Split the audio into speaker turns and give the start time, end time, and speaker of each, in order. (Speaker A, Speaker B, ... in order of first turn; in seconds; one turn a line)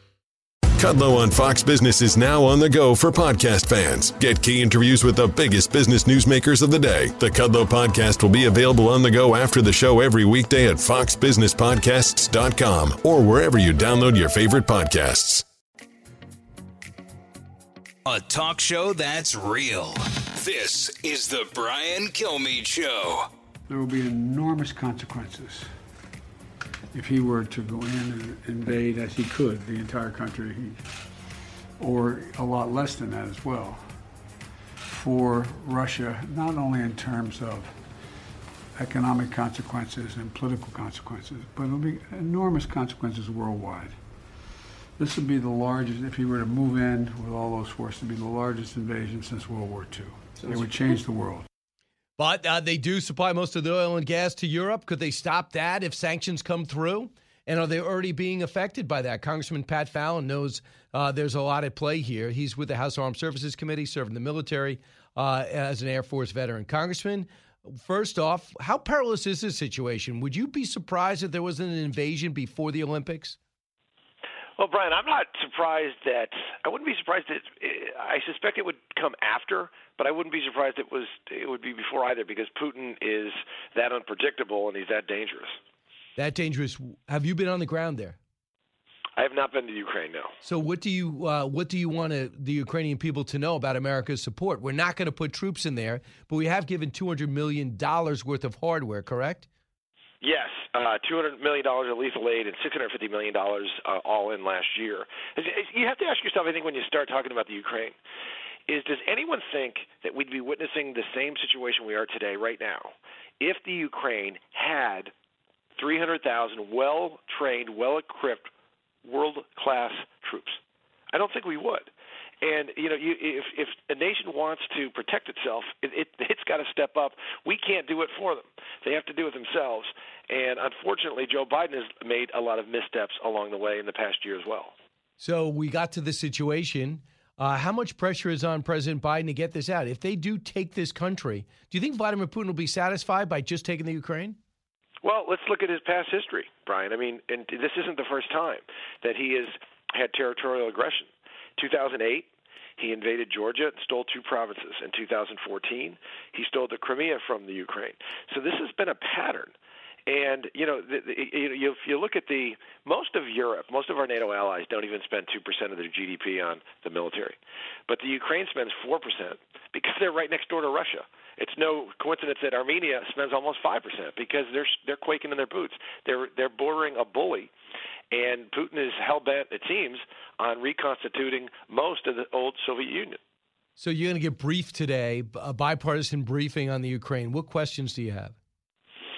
Speaker A: 0.8-15.4
Speaker B: 18.1-23.3
Speaker C: 23.7-25.7
Speaker C: 26.9-30.8
Speaker C: 31.8-33.9
Speaker C: 34.9-37.8
Speaker C: 38.8-44.0
Speaker C: 45.0-51.5
Speaker D: 52.2-73.4
Speaker E: 74.6-85.6
Speaker D: 86.2-88.2
Speaker E: 89.2-90.3
Speaker D: 90.4-99.5
Speaker E: 100.2-108.0
Speaker E: 108.7-115.1
Speaker E: 115.8-118.5
Speaker E: 119.0-120.6
Speaker E: 121.1-121.9
Speaker E: 122.4-134.7
Speaker D: 135.2-144.4
Speaker E: 145.0-159.5
Speaker E: 160.1-177.5
Speaker E: 178.1-183.2
Speaker D: 183.8-188.3